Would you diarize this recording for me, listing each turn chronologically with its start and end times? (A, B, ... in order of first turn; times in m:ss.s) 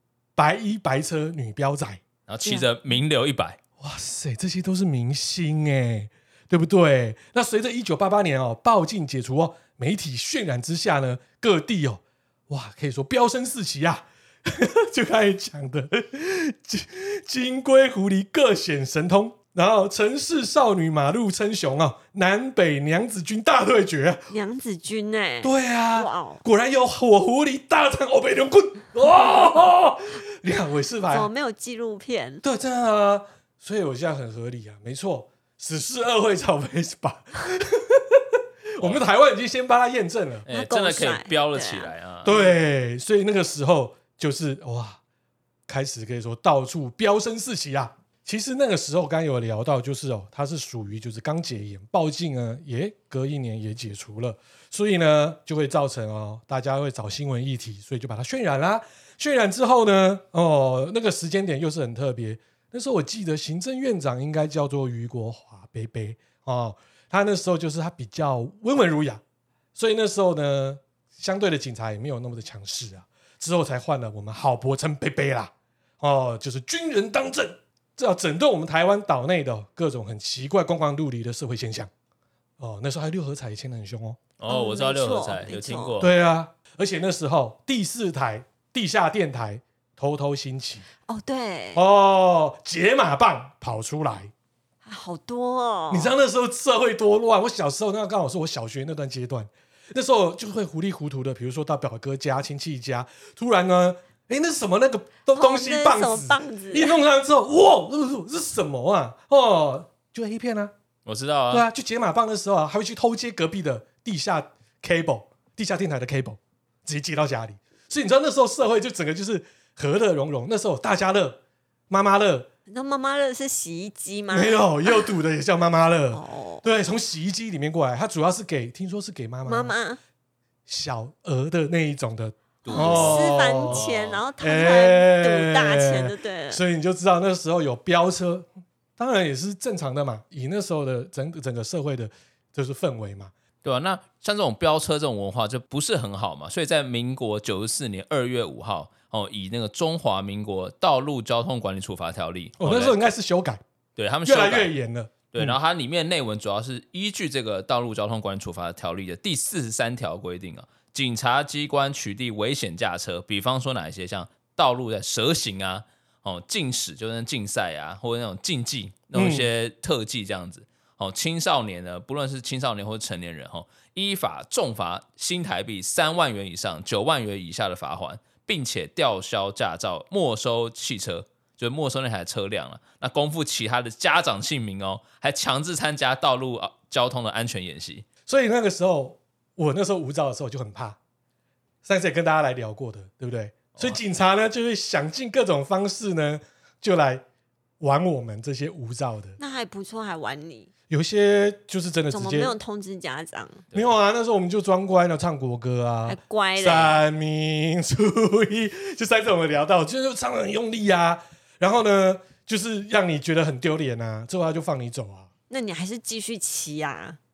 0:00.4-0:02.0 A
0:02.3-0:03.6 B
0:03.8-0:24.2 A
0:24.3-0:26.4 C
0:25.4-0:31.3 A
0:31.1-0:32.4 C
0:32.4-0:40.5 A
0:40.5-0:42.5 B
0:40.5-0:41.9 C
0:42.2-0:45.0 A
0:45.7-1:09.2 A
1:09.8-1:21.9 A
1:22.6-1:24.2 A
1:24.4-1:26.1 B
1:24.5-1:26.0 C
1:26.0-1:30.8 A
1:31.1-1:31.8 C
1:31.8-1:34.3 A
1:34.8-1:36.1 C
1:35.9-1:50.7 A
1:45.4-1:47.0 C
1:51.1-1:51.7 B
1:51.5-2:01.4 A
2:01.9-2:02.5 A
2:02.7-2:05.1 C
2:04.3-2:09.7 A
2:06.1-2:06.6 C
2:09.5-2:10.0 C
2:10.7-2:13.8 A
2:12.6-2:14.2 B
2:12.7-2:16.6 C
2:14.4-2:23.3 A
2:23.6-2:33.0 B
2:32.6-2:33.6 A
2:34.0-2:34.7 B
2:34.2-2:35.6 A
2:35.3-3:08.0 B
2:49.1-2:49.5 A
3:08.3-3:11.0 A
3:11.8-3:17.2 A
3:17.8-3:19.4 A
3:19.4-3:20.7 C
3:20.9-3:22.5 A
3:22.1-3:23.6 C
3:23.7-3:35.3 A
3:26.1-3:27.0 C
3:35.5-3:37.2 C